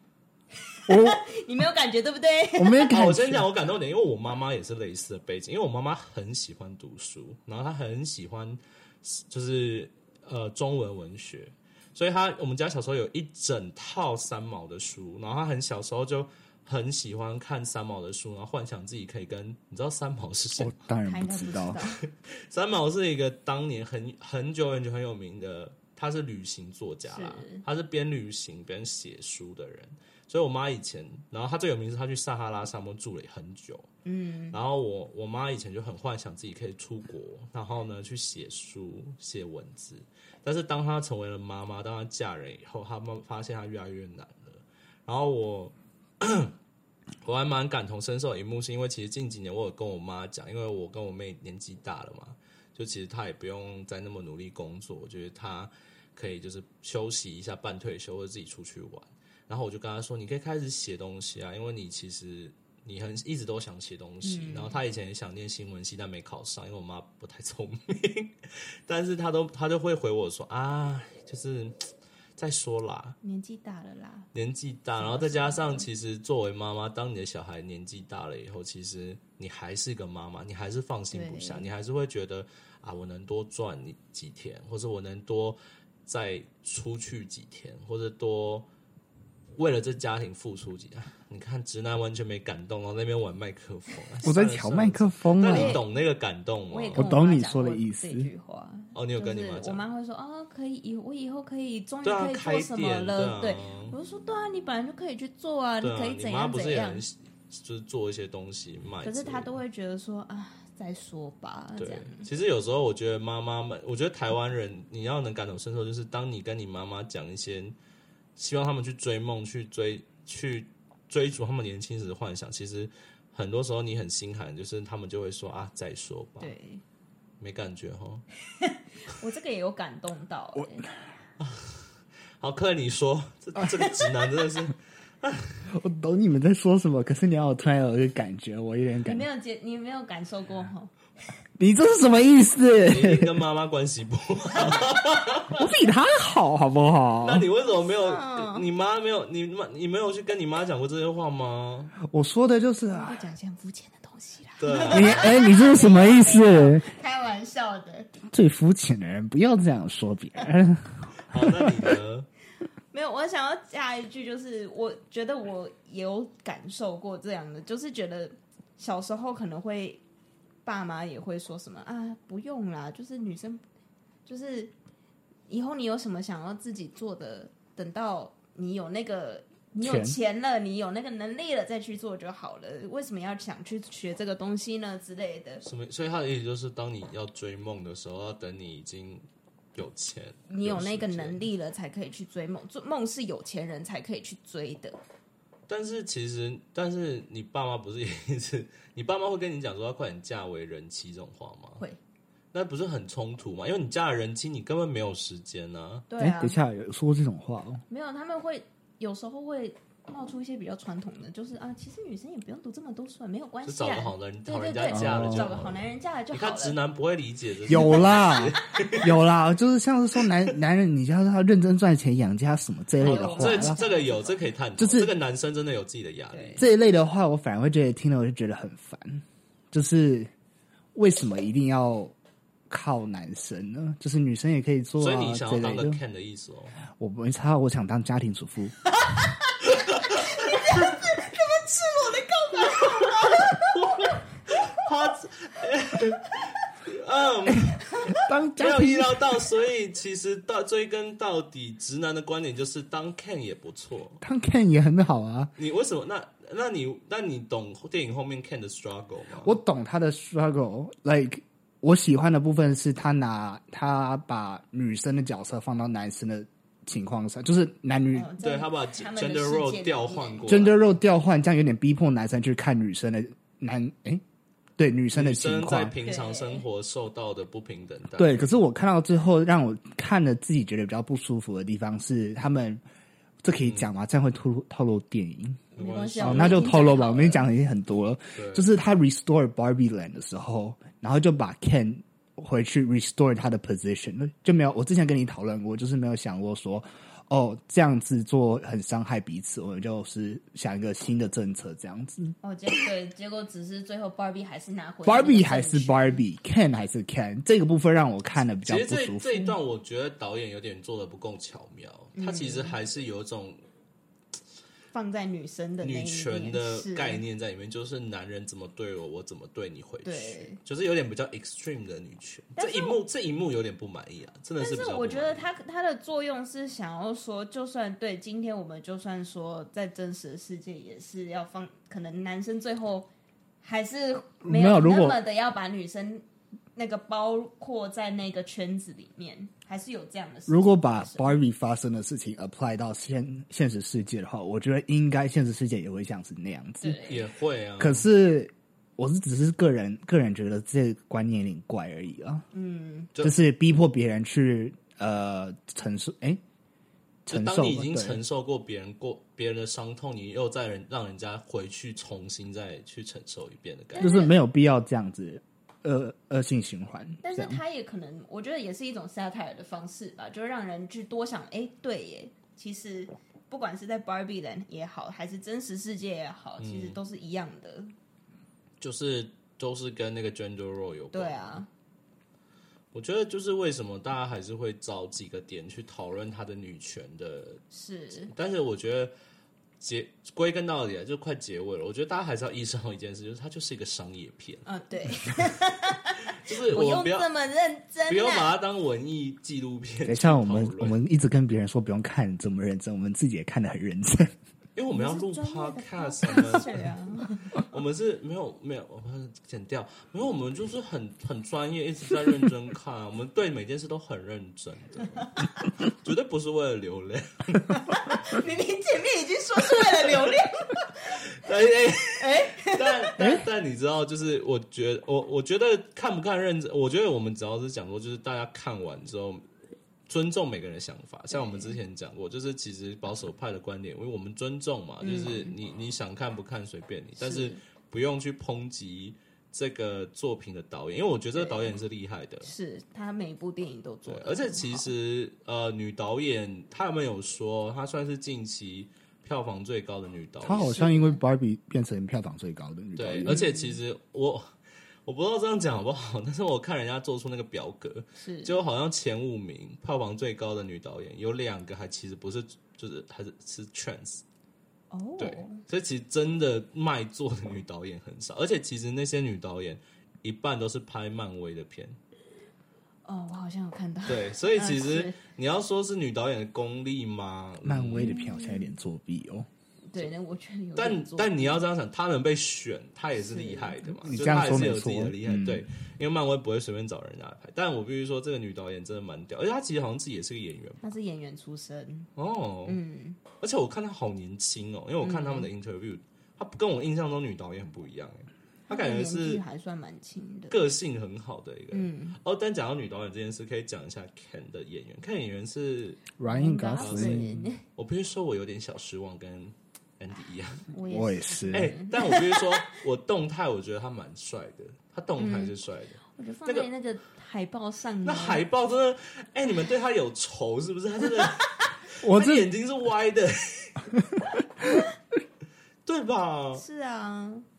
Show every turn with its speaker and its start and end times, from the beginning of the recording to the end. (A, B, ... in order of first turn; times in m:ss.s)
0:00.7-0:02.9 A
0:00.9-0:01.2 B
0:02.6-0:03.5 B
0:02.9-0:20.7 C
0:20.6-0:21.8 B
0:21.0-0:22.0 A
0:22.0-0:33.9 C
0:27.0-0:27.6 A
0:34.0-0:34.6 A
0:34.5-0:46.5 C
0:47.2-1:13.2 C
1:04.2-1:04.8 A
1:13.2-1:14.3 A
1:14.3-1:28.7 C
1:15.0-1:15.8 A
1:21.1-1:21.7 A
1:29.6-1:37.1 C
1:34.2-1:35.8 B
1:35.5-1:35.8 A
1:36.7-1:47.0 A
1:36.9-1:38.3 B
1:38.9-1:39.8 C
1:42.0-1:43.9 C
1:45.8-1:49.5 C
1:49.0-1:52.3 A
1:51.8-1:57.8 C
1:58.4-2:06.5 C
2:06.4-2:06.8 A
2:07.4-2:08.2 C
2:08.5-2:10.9 A
2:11.4-2:15.7 C
2:13.6-2:14.2 A
2:15.7-2:19.2 B
2:19.0-2:20.9 A
2:21.6-2:23.4 B
2:22.9-2:25.6 C
2:25.5-2:27.5 B
2:27.2-2:31.9 C
2:27.6-2:28.7 A
2:32.0-2:33.2 B
2:32.9-2:38.1 A
2:34.6-2:35.4 C
2:34.9-2:36.8 B
2:38.3-2:42.0 B
2:41.3-2:42.3 C
2:42.9-2:50.0 A
2:50.6-2:53.6 A
2:54.2-2:54.7 A
2:55.5-3:05.6 A
2:59.8-3:00.2 B
3:05.6-3:11.5 C
3:10.5-3:15.0 A
3:15.7-3:21.8 C
3:22.5-3:26.0 C
3:26.1-3:26.6 A
3:26.2-3:27.8 B
3:27.9-3:36.8 A
3:33.6-3:39.2 C
3:34.9-3:35.5 B
3:37.6-3:43.8 B
3:37.7-3:39.0 A
3:43.0-3:44.4 A
3:43.0-3:46.6 C
3:44.8-3:45.1 B
3:46.3-3:46.7 A
3:46.6-3:50.3 B
3:50.9-3:52.1 B
3:52.7-3:56.0 B
3:55.0-3:56.8 C
3:56.9-3:58.8 B
3:59.0-4:04.0 A
4:00.0-4:00.6 C
4:03.6-4:14.2 C
4:07.9-4:08.2 A
4:08.2-4:09.4 B
4:14.2-4:15.5 B
4:15.6-4:19.6 C
4:19.4-4:28.3 B
4:28.1-4:30.6 A
4:28.4-4:30.9 C
4:30.4-4:34.2 B
4:34.8-4:35.9 B
4:35.1-4:38.5 C
4:36.0-4:36.6 A
4:38.2-4:42.8 B
4:43.4-4:45.6 B
4:43.6-4:43.9 C
4:45.7-4:47.4 A
4:45.8-4:46.8 C
4:46.2-5:02.3 B
4:48.3-4:48.6 C
5:02.4-5:06.2 A
5:05.0-5:09.6 B
5:08.6-5:13.6 C
5:12.1-5:12.8 A
5:14.9-5:17.2 A
5:15.8-5:25.4 C
5:20.0-5:20.6 A
5:22.6-5:23.0 A
5:24.6-5:33.1 A
5:33.6-5:41.4 A
5:34.4-5:35.2 B
5:40.5-5:47.0 B
5:46.8-5:47.2 A
5:47.1-5:48.0 C
5:47.8-5:52.4 B
5:52.5-5:53.1 A
5:53.2-5:56.4 B
5:57.2-5:58.2 B
5:57.3-6:04.2 C
6:03.9-6:04.3 A
6:04.0-6:07.6 B
6:07.2-6:17.9 A
6:16.6-6:17.0 C
6:18.8-6:21.6 C
6:21.1-6:21.7 A
6:22.9-6:27.6 C
6:27.7-6:28.3 A
6:28.3-6:29.1 C
6:29.8-6:34.7 C
6:34.6-6:38.5 A
6:36.4-6:37.3 C
6:38.1-6:41.0 C
6:40.0-6:44.3 B
6:44.8-6:46.8 C
6:44.9-6:47.6 A
6:47.5-6:55.3 C
6:55.0-6:55.5 A
6:55.9-6:57.9 C
6:57.7-7:01.2 A
7:01.3-7:09.4 C
7:02.2-7:03.4 A
7:03.2-7:03.4 B
7:10.1-7:22.5 C
7:11.3-7:11.8 A
7:15.0-7:15.5 A
7:17.2-7:17.6 A
7:21.3-7:21.8 A
7:22.4-7:24.8 A
7:24.0-7:30.8 C
7:30.4-7:33.4 B
7:30.5-7:31.2 A
7:33.0-7:34.5 C
7:33.2-7:33.8 A
7:35.0-7:44.2 C
7:38.2-7:38.6 A
7:44.9-7:45.6 A
7:45.2-7:52.0 C
7:53.0-7:55.2 A
7:54.1-7:58.2 C
7:57.6-7:59.5 B
7:58.0-7:58.7 A
7:59.9-8:01.6 A
8:00.7-8:10.9 C
8:03.1-8:04.2 A
8:04.1-8:05.6 B
8:10.8-8:12.1 A
8:12.2-8:12.8 C
8:12.6-8:13.2 A
8:13.4-8:19.4 C
8:15.0-8:15.5 A
8:18.7-8:20.6 A
8:20.5-8:26.1 C
8:21.7-8:22.2 A
8:26.2-8:27.4 B
8:26.3-8:27.6 A
8:26.8-8:30.7 C
8:30.7-8:32.7 A
8:30.9-8:31.7 B
8:31.5-8:36.7 C
8:35.2-8:35.6 A
8:36.1-8:38.4 A
8:38.0-8:44.0 C
8:41.2-8:41.6 A
8:42.0-8:42.5 B
8:45.8-8:46.6 C
8:46.5-8:47.4 A